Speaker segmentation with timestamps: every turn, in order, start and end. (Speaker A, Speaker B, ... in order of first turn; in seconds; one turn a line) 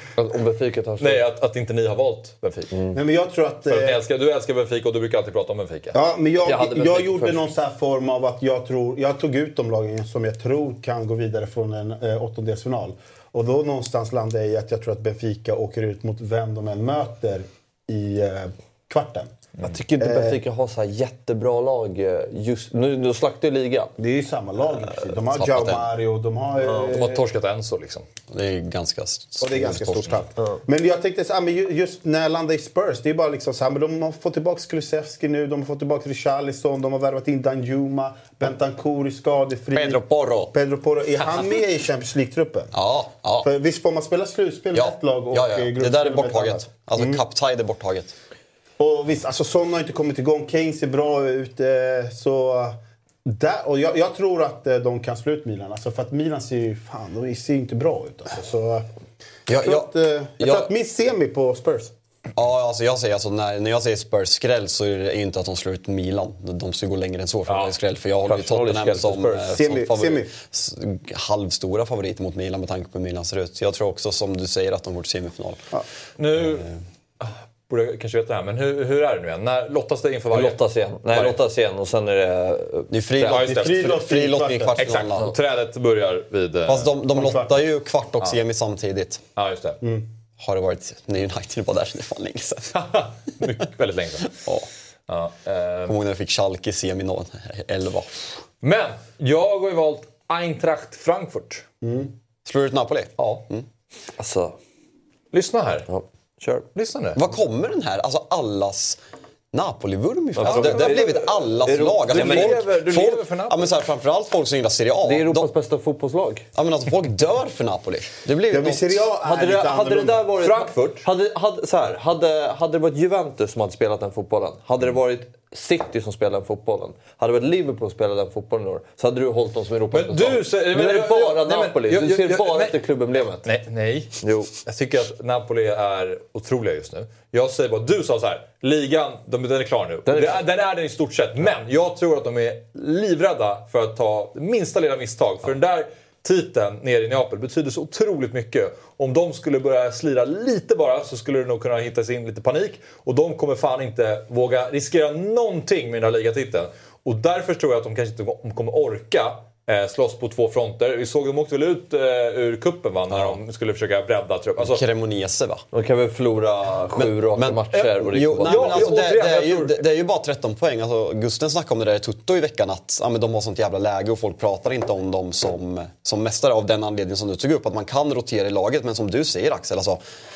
Speaker A: 0.2-1.3
Speaker B: 1.0-2.7
Speaker C: 2.9-4.0
Speaker B: 3.7-6.0
Speaker C: 5.9-19.3
Speaker A: 6.4-7.4
Speaker A: 19.6-23.9
Speaker C: 20.0-20.4
Speaker C: 24.0-27.2
Speaker D: 25.3-25.9
Speaker A: 26.6-27.0
Speaker B: 26.9-28.1
Speaker D: 28.3-30.2
Speaker C: 29.4-42.7
Speaker D: 39.7-40.5
Speaker D: 42.7-43.5
Speaker C: 43.4-47.2
Speaker D: 44.7-48.1
Speaker C: 48.8-58.9
Speaker D: 59.5-60.7
Speaker C: 59.5-61.9
Speaker D: 62.4-75.7
Speaker B: 67.5-67.8
Speaker A: 68.3-69.6
Speaker C: 69.5-70.3
Speaker B: 76.2-76.7
Speaker D: 76.4-76.8
Speaker B: 77.2-80.6
Speaker A: 80.3-82.9
Speaker B: 81.1-81.4
Speaker D: 82.9-85.3
Speaker B: 83.2-84.0
Speaker C: 83.3-84.8
Speaker B: 84.8-86.9
Speaker D: 86.7-89.2
Speaker C: 87.1-87.5
Speaker B: 89.4-89.8
Speaker D: 90.4-92.8
Speaker B: 92.7-94.4
Speaker D: 94.3-94.7
Speaker B: 95.1-96.0
Speaker D: 95.9-98.3
Speaker B: 98.6-101.7
Speaker C: 101.8-102.1
Speaker D: 102.5-103.7
Speaker B: 103.2-103.4
Speaker A: 104.2-104.6
Speaker B: 105.3-105.9
Speaker A: 105.9-106.7
Speaker B: 106.8-107.2
Speaker D: 107.2-109.0
Speaker D: 109.5-115.5
Speaker A: 110.4-112.7
Speaker C: 110.5-110.9
Speaker B: 112.1-113.7
Speaker A: 115.0-116.5
Speaker D: 116.5-119.0
Speaker C: 118.5-120.2
Speaker A: 119.2-133.5
Speaker B: 120.4-121.1
Speaker B: 129.9-132.8
Speaker B: 133.4-164.8
Speaker A: 134.2-134.5
Speaker A: 140.1-140.4
Speaker D: 163.1-163.4
Speaker D: 164.6-165.6
Speaker A: 165.7-168.9
Speaker D: 166.9-180.0
Speaker B: 167.7-169.8